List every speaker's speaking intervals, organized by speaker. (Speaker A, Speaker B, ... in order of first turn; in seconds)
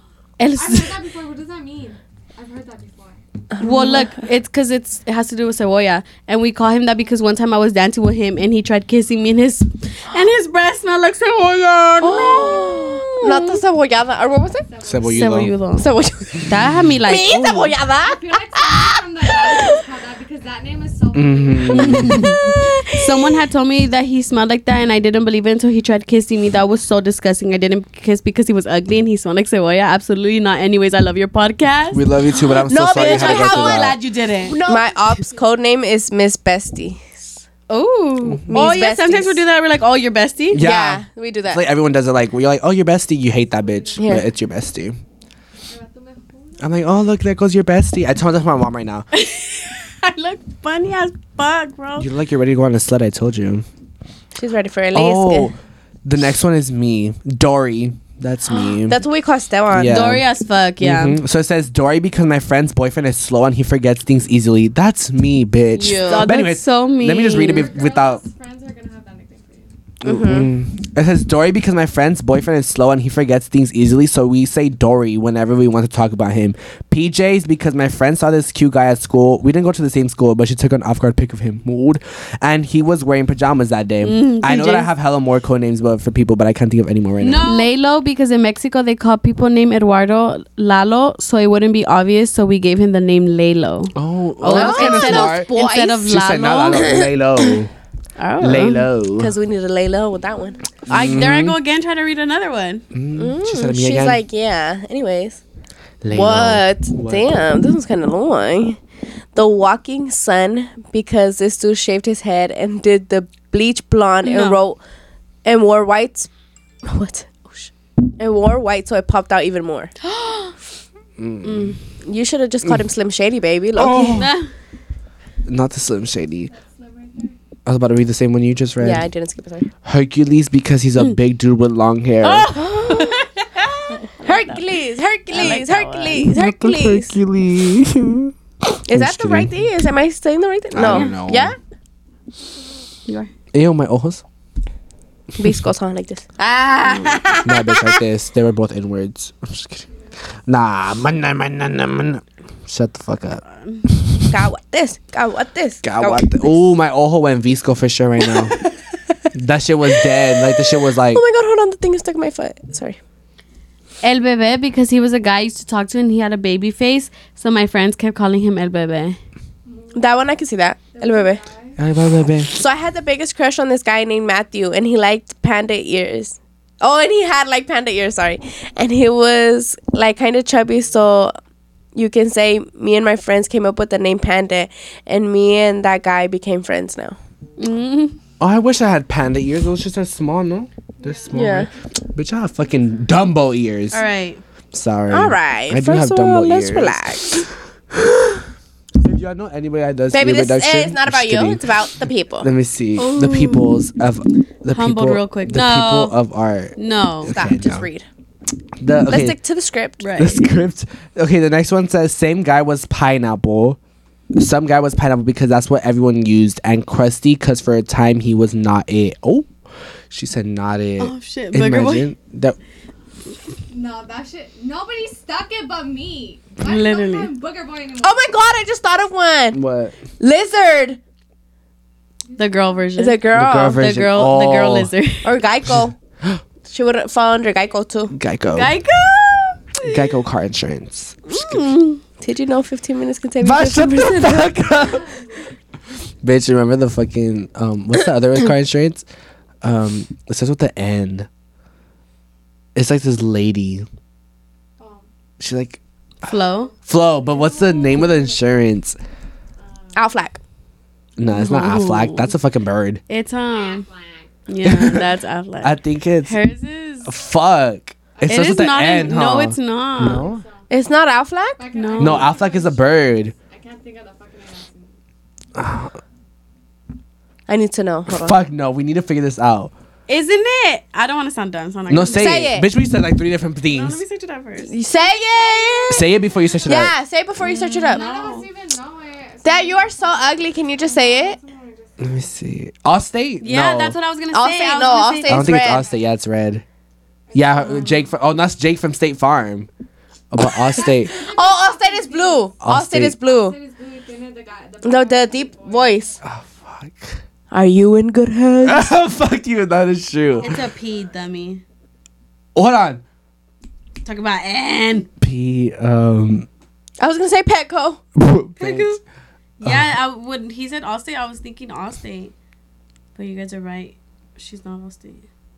Speaker A: 0.4-1.0, 3.6-13.6, 15.1-15.9, 16.4-17.7, 21.8-32.0, 32.9-34.6, 37.7-40.6, 49.1-52.1, 59.9-61.2, 65.9-67.7, 84.0-84.9, 87.2-97.0, 98.2-98.8, 100.9-102.8, 114.2-114.6, 120.0-120.5, 121.4-121.8, 124.1-124.5, 132.5-133.3, 135.3-136.3, 140.8-141.1, 164.0-169.2, 187.6-188.2, 193.9-194.4, 203.0-203.7, 204.7-206.2, 206.8-207.3, 210.0-210.4, 221.0-222.1, 226.6-227.3, 232.4-235.3, 238.5-240.1, 256.2-256.7, 261.3-262.3, 263.1-263.9, 264.5-267.1, 268.3-270.3, 271.7-272.3, 280.1-282.3, 283.7-284.7, 287.4-288.5, 293.4-295.6, 310.4-311.6, 314.0-315.1, 318.6-319.0, 319.6-322.3, 323.1-325.2
Speaker B: 0.6-3.2, 14.7-15.5, 18.0-22.2, 34.6-35.4, 43.5-44.2, 45.7-46.7, 67.3-69.7, 126.5-127.3, 169.7-170.2, 170.9-171.8, 191.0-191.6, 223.7-228.3, 232.3-233.1, 244.7-245.4, 254.8-255.1, 256.7-258.5, 259.6-260.0, 263.5-264.3, 268.2-269.0, 270.0-270.6, 271.6-274.9, 284.9-286.1, 287.9-292.3, 295.5-296.1, 297.3-298.1, 300.7-302.6, 303.2-306.2
Speaker C: 3.5-4.1, 12.0-14.7, 15.8-19.8, 21.9-23.4, 32.7-34.0, 34.5-37.4, 38.5-39.4, 40.6-41.6, 44.0-44.2, 54.4-55.5, 58.5-60.0, 65.8-66.3, 70.0-70.5, 94.5-96.1, 99.2-100.6, 103.2-105.4, 106.1-108.8, 109.3-114.8, 115.5-116.3, 116.8-119.9, 122.0-124.3, 128.8-129.7, 132.2-137.2, 138.9-141.6, 145.4-148.0, 154.3-156.6, 160.2-163.0, 169.9-171.4, 172.5-181.3, 181.9-187.2, 191.3-191.7, 195.1-197.5, 200.1-202.5, 207.3-208.1, 209.1-210.1, 228.0-229.6, 230.2-231.0, 233.0-233.8, 235.2-235.9, 236.7-238.1, 241.3-244.5, 259.9-260.4, 270.7-271.7, 277.5-278.4, 282.1-282.7, 284.7-286.1, 286.6-288.0, 289.4-291.4, 294.3-295.9, 301.0-303.6, 304.8-306.2, 307.5-308.9, 317.0-318.0
Speaker D: 14.8-15.6, 21.1-22.3, 31.9-34.0, 40.5-45.0, 46.6-49.1, 52.0-53.6, 54.9-59.0, 59.7-60.3, 60.8-68.2, 70.0-87.5, 93.9-95.5, 96.1-97.7, 98.4-99.3, 100.9-101.6, 102.9-104.2, 106.0-107.3, 121.2-121.8, 123.8-124.4, 125.5-126.5, 127.7-129.1, 129.8-132.5, 136.3-138.3, 138.8-139.5, 140.7-141.5, 143.5-144.2, 147.4-149.8, 150.5-153.4, 154.0-154.3, 155.8-158.6, 159.3-161.2, 171.8-172.5, 188.4-194.0, 194.7-197.5, 198.1-198.4, 199.0-201.8, 202.4-207.9, 208.8-209.4, 210.2-213.8, 214.4-219.5, 220.1-222.6, 229.5-230.0, 233.3-234.9, 238.1-238.7, 239.8-241.6, 243.4-245.1, 246.2-249.1, 249.6-251.3, 252.8-253.9, 255.4-255.8, 256.9-259.0, 261.2-263.0, 264.6-265.0, 265.6-266.4, 267.1-270.4, 272.0-273.3, 275.6-275.9, 278.1-279.7, 281.9-284.0, 285.9-286.9, 292.0-294.0, 295.3-296.6, 297.3-299.7, 300.3-301.1, 302.6-303.2, 306.2-307.2, 308.6-310.6, 312.6-313.0, 315.2-316.5, 318.2-319.0